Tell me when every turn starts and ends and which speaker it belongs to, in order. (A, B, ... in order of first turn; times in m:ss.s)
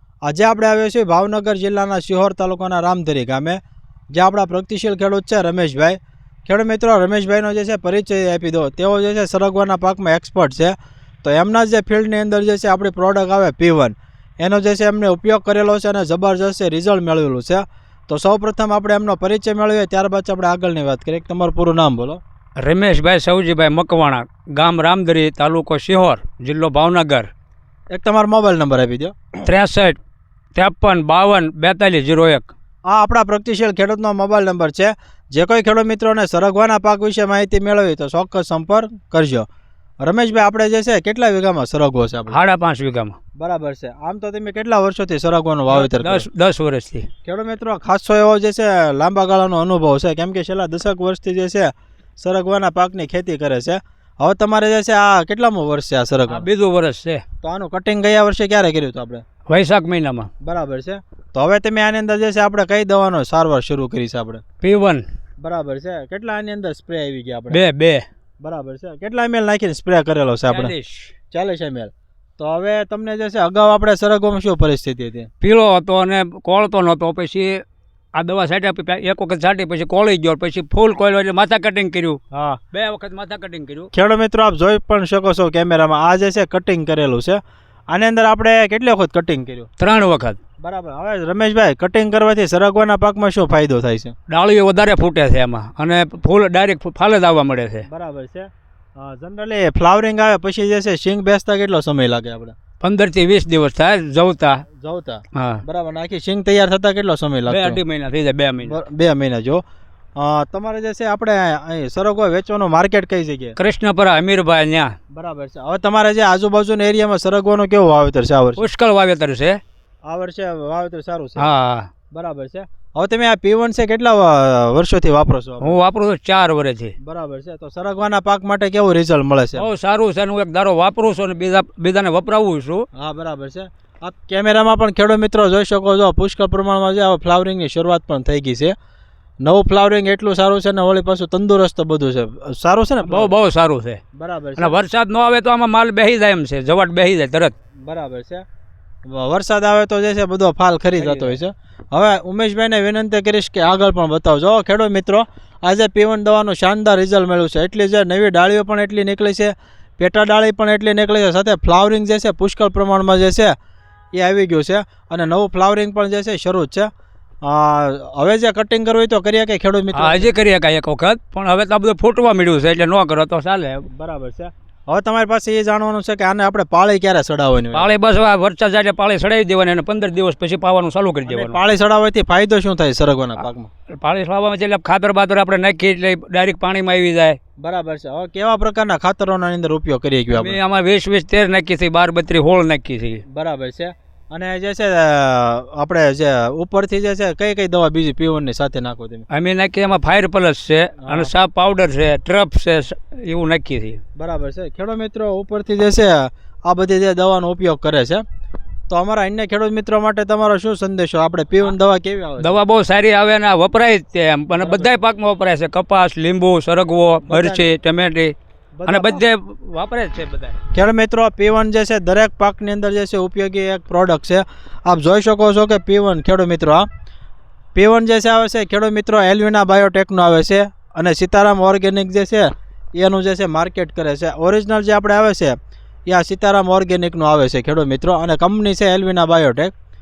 0:00.2-0:03.6 A
0:04.1-0:22.2 A
0:22.6-0:27.3 B
0:27.9-0:29.2 A
0:29.4-0:30.0 B
0:30.6-0:32.5 B
0:32.9-0:39.5 A
0:40.0-0:42.4 A
0:42.3-0:43.2 B
0:43.4-0:46.3 A
0:45.7-0:47.1 B
0:47.2-0:56.5 A
0:56.3-0:57.2 B
0:57.4-0:59.2 A
0:59.5-1:00.3 B
1:00.4-1:04.4 A
1:04.6-1:05.0 B
1:05.4-1:07.6 A
1:07.5-1:08.1 B
1:08.4-1:10.7 A
1:10.5-1:11.1 B
1:11.3-1:15.3 A
1:15.4-1:17.6 B
1:18.1-1:22.2 B
1:22.3-1:22.6 A
1:22.7-1:23.9 B
1:23.9-1:29.7 A
1:29.8-1:30.4 B
1:30.6-1:34.2 A
1:34.3-1:37.9 B
1:37.9-1:42.6 A
1:42.8-1:44.6 B
1:44.8-1:47.8 A
1:45.3-1:45.6 B
1:47.5-1:48.8 B
1:48.6-1:49.6 A
1:50.2-1:53.6 A
1:53.6-1:55.0 B
1:55.1-1:58.7 A
1:58.6-1:59.6 B
2:00.1-2:01.4 A
2:01.4-2:01.9 B
2:02.1-2:05.8 A
2:05.6-2:07.0 B
2:07.0-2:09.7 A
2:09.6-2:12.9 B
2:12.9-2:18.8 A
2:19.4-2:23.3 A
2:23.0-2:24.0 B
2:24.2-2:24.7 A
2:24.6-2:27.5 B
2:27.8-2:28.4 A
2:29.1-2:43.6 A
2:31.0-2:31.4 B
2:44.1-2:46.9 A
2:47.4-2:50.3 A
2:49.9-2:53.9 B
2:53.9-2:57.9 A
2:57.7-3:01.6 B
3:01.3-3:03.7 A
3:03.9-3:07.4 B
3:07.6-3:10.6 A
3:10.3-3:13.2 B
3:13.3-3:19.3 A
3:19.3-3:24.0 B
3:21.0-3:21.3 A
3:24.2-3:28.2 A
3:28.9-3:32.6 A
3:32.4-3:38.4 B
3:34.5-3:34.9 A
3:37.3-3:37.7 A
3:38.8-3:39.2 A
3:38.9-3:40.6 B
3:40.7-3:46.9 A
3:47.8-3:59.7 A